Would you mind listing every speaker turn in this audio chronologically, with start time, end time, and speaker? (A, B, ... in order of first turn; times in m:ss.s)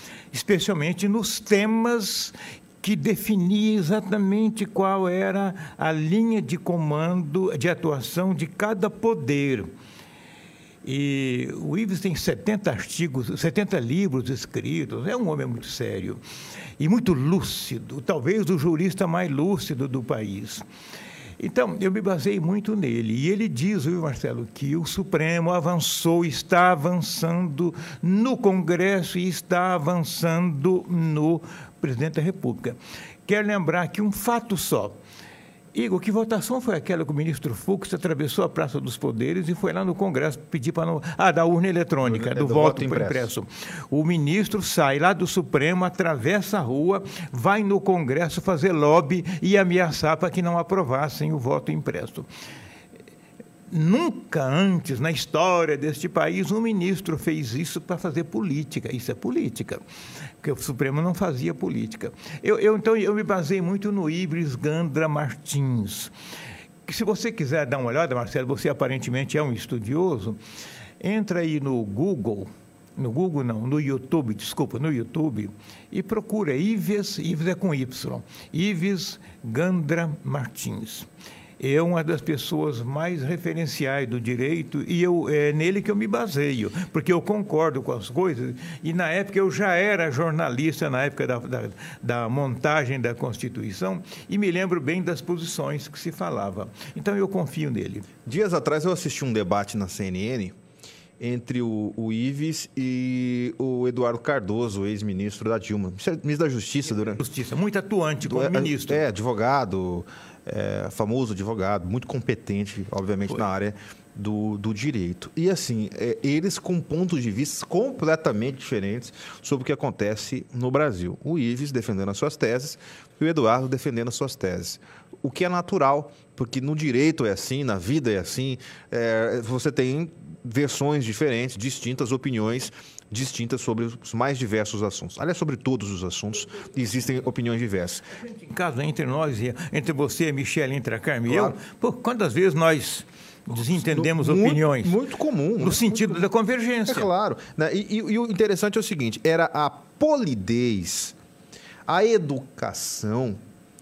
0:00.3-0:09.7 A
0:10.8-0:16.2 A
0:16.8-0:20.6 A
0:21.4-0:35.0 A
0:35.7-0:52.3 A
0:42.0-0:43.3 B
0:53.7-0:59.8 A
1:00.4-1:06.1 A
1:06.9-1:10.4 A
1:11.0-1:21.1 A
1:21.6-1:38.1 A
1:38.3-1:40.6 B
1:41.2-1:47.2 B
1:47.0-1:49.0 A
1:48.2-2:18.1 B
2:18.2-2:25.0 A
2:21.3-2:21.6 B
2:23.7-2:26.3 B
2:25.6-2:27.1 A
2:26.9-2:31.2 B
2:31.9-2:33.4 B